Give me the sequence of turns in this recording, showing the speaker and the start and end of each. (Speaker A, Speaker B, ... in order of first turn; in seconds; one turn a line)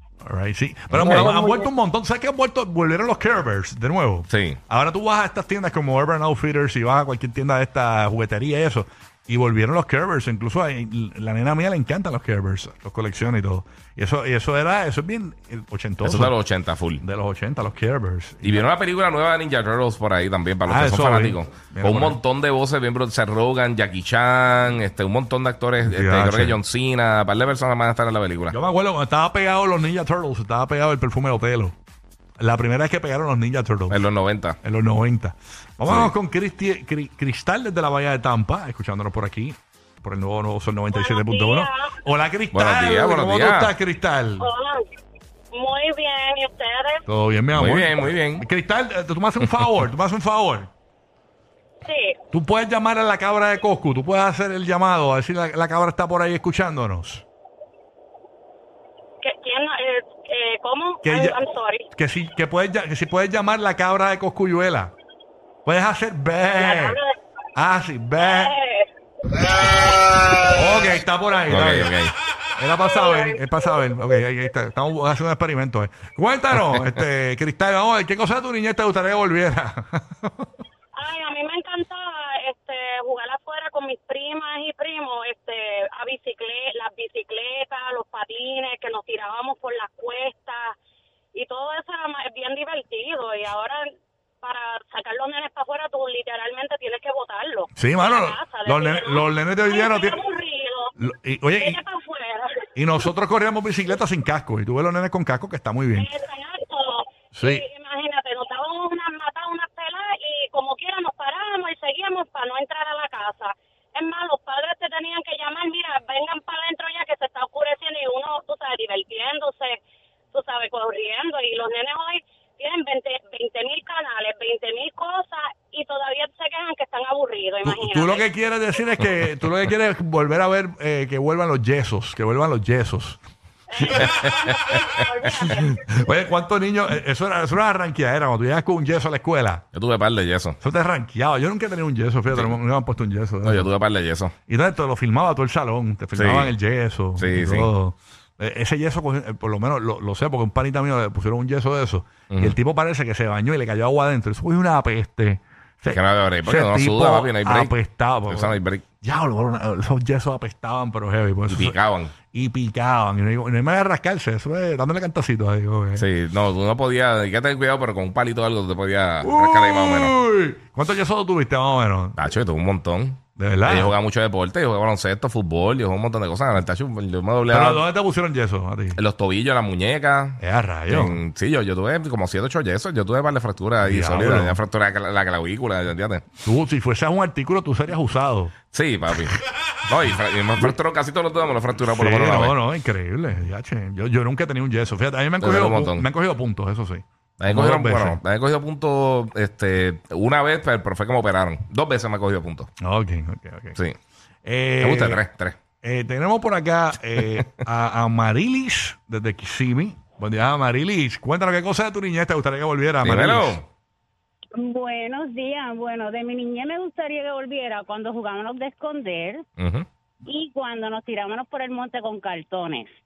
Speaker A: 0.2-16.4
Speaker B: 0.9-1.3
Speaker B: 4.3-4.6
Speaker B: 16.0-17.0
Speaker A: 17.0-18.7
Speaker B: 18.4-28.5
Speaker A: 20.6-22.2
Speaker A: 25.8-26.6
Speaker A: 28.5-31.7
Speaker A: 32.4-34.0
Speaker B: 33.9-34.6
Speaker A: 34.6-44.5
Speaker B: 35.8-36.1
Speaker C: 40.9-41.9
Speaker B: 42.5-43.7
Speaker C: 44.4-44.8
Speaker C: 45.5-47.0
Speaker A: 47.1-50.7
Speaker B: 47.5-48.4
Speaker C: 51.8-52.2
Speaker A: 52.3-57.2
Speaker C: 59.2-61.8
Speaker A: 61.0-61.4
Speaker A: 61.9-64.9
Speaker A: 65.6-67.0
Speaker C: 66.5-67.1
Speaker A: 67.5-68.5
Speaker C: 68.2-68.9
Speaker A: 70.5-72.0
Speaker B: 71.5-72.1
Speaker A: 72.6-80.5
Speaker C: 72.9-73.2
Speaker C: 80.9-90.7
Speaker C: 91.3-93.9
Speaker C: 94.4-100.9
Speaker A: 97.8-100.2
Speaker A: 101.0-101.8
Speaker C: 101.6-102.5
Speaker A: 102.8-106.1
Speaker C: 106.0-119.8
Speaker A: 107.3-107.6
Speaker C: 120.3-128.3
Speaker A: 127.6-133.2
Speaker C: 133.7-136.0
Speaker A: 135.7-139.6
Speaker B: 139.7-140.6
Speaker A: 140.6-143.7
Speaker B: 142.3-142.6
Speaker B: 143.4-144.3
Speaker A: 144.5-161.8
Speaker B: 146.2-146.5
Speaker B: 147.2-147.7
Speaker B: 152.3-152.6
Speaker B: 155.9-157.7
Speaker B: 158.3-158.8
Speaker B: 161.5-162.1
Speaker A: 162.3-166.1
Speaker B: 166.0-170.1
Speaker A: 169.2-172.2
Speaker B: 172.2-177.8
Speaker A: 173.4-174.0
Speaker A: 177.5-179.0
Speaker B: 178.9-186.3
Speaker A: 180.4-181.2
Speaker A: 183.8-184.6
Speaker A: 186.4-188.5
Speaker B: 188.7-192.6
Speaker A: 191.9-198.2
Speaker B: 195.4-196.1
Speaker B: 197.4-202.7
Speaker A: 202.8-203.8
Speaker A: 204.4-205.2
Speaker B: 204.8-205.6
Speaker A: 205.8-213.6
Speaker B: 213.0-213.7
Speaker D: 214.6-219.4
Speaker B: 219.6-219.8
Speaker D: 220.3-222.9